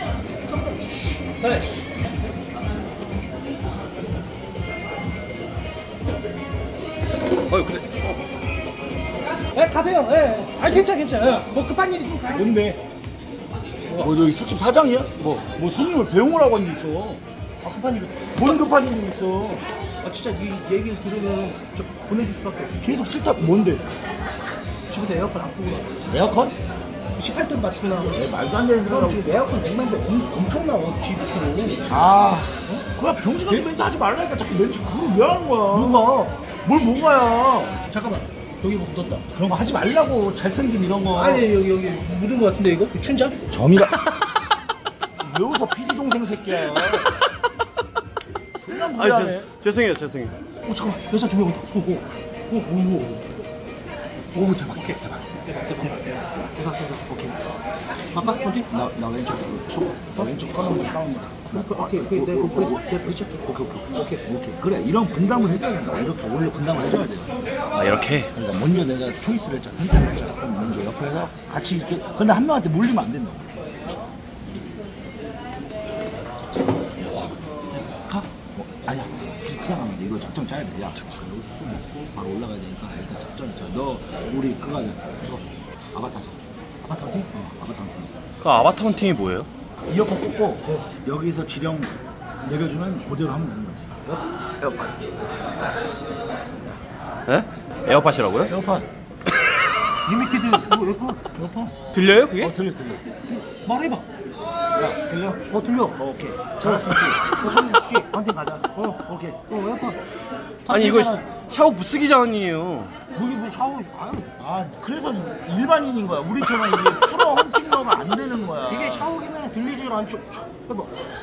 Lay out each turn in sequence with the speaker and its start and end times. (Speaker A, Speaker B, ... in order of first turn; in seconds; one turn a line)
Speaker A: 0.5-1.8
Speaker B: 7.5-8.2
Speaker A: 9.5-12.5
Speaker C: 12.3-12.8
Speaker C: 13.9-17.2
Speaker A: 17.6-18.5
Speaker C: 18.4-19.6
Speaker A: 20.0-22.8
Speaker C: 22.8-23.9
Speaker A: 24.9-25.9
Speaker C: 26.1-26.6
Speaker A: 27.2-28.2
Speaker C: 28.1-29.6
Speaker A: 28.9-31.9
Speaker C: 31.9-36.0
Speaker A: 35.7-36.4
Speaker C: 36.6-37.8
Speaker A: 37.9-39.2
Speaker C: 39.3-41.5
Speaker A: 41.1-43.4
Speaker C: 43.5-44.0
Speaker C: 45.2-47.2
Speaker C: 48.6-49.5
Speaker B: 48.9-50.4
Speaker A: 50.7-53.3
Speaker C: 54.3-56.4
Speaker A: 55.5-57.4
Speaker A: 58.1-58.7
Speaker C: 58.7-67.3
Speaker A: 61.5-63.4
Speaker B: 67.7-68.3
Speaker C: 68.3-73.5
Speaker C: 78.1-85.0
Speaker C: 85.9-86.4
Speaker A: 86.8-87.3
Speaker C: 87.3-88.1
Speaker B: 88.4-89.5
Speaker C: 89.9-93.9
Speaker C: 94.6-94.9
Speaker B: 97.3-98.5
Speaker C: 98.5-98.9
Speaker A: 100.0-101.2
Speaker C: 101.3-101.8
Speaker B: 101.9-102.5
Speaker C: 102.4-103.0
Speaker A: 103.5-104.0
Speaker C: 104.7-105.4
Speaker A: 105.5-108.1
Speaker C: 106.0-109.4
Speaker A: 108.7-110.0
Speaker C: 110.7-111.2
Speaker B: 110.7-112.9
Speaker A: 110.7-111.2
Speaker A: 113.2-114.3
Speaker C: 114.4-119.2
Speaker A: 118.7-121.0